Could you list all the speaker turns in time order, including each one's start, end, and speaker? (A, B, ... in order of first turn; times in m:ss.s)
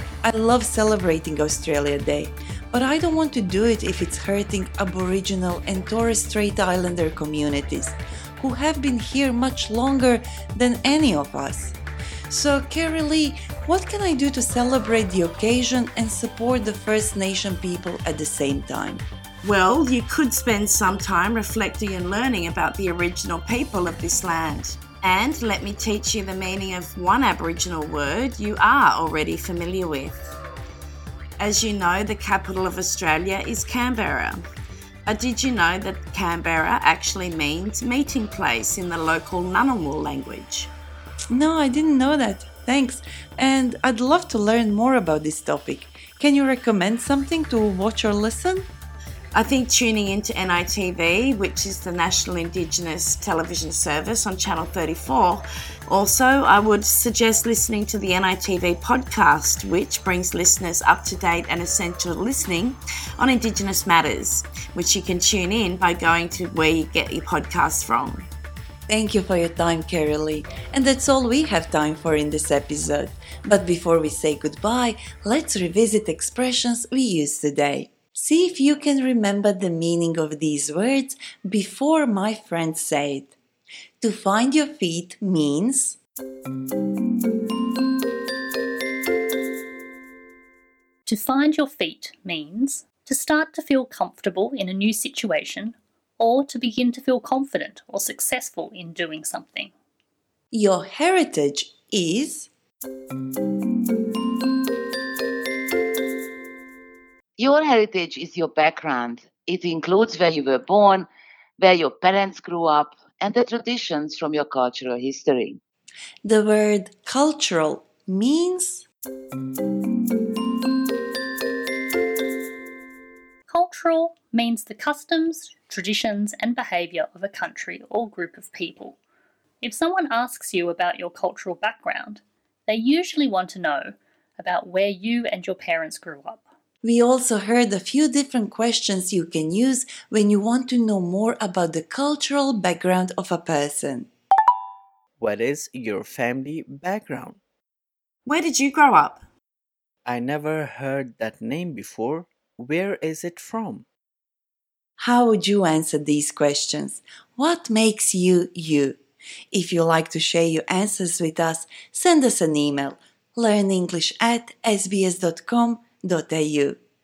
0:00.2-0:11.8 A
0:12.3-0:19.0 A
0:19.4-0:30.3 B
0:31.4-0:34.4 B
0:35.1-0:40.7 B
0:41.3-0:48.7 A
0:49.3-1:08.3 B
1:08.9-1:23.3 A
1:24.0-1:26.0 A
1:31.1-1:39.7 C
1:40.5-1:42.5 A
1:47.4-1:51.1 D
1:51.6-1:55.6 D
1:56.2-1:58.9 A
2:03.5-2:09.0 C
2:09.6-2:16.4 C
2:16.8-2:24.1 A
2:25.2-2:27.4 E
2:28.3-2:29.2 B
2:30.0-2:33.8 E
2:35.0-2:39.0 A
2:39.5-2:46.8 A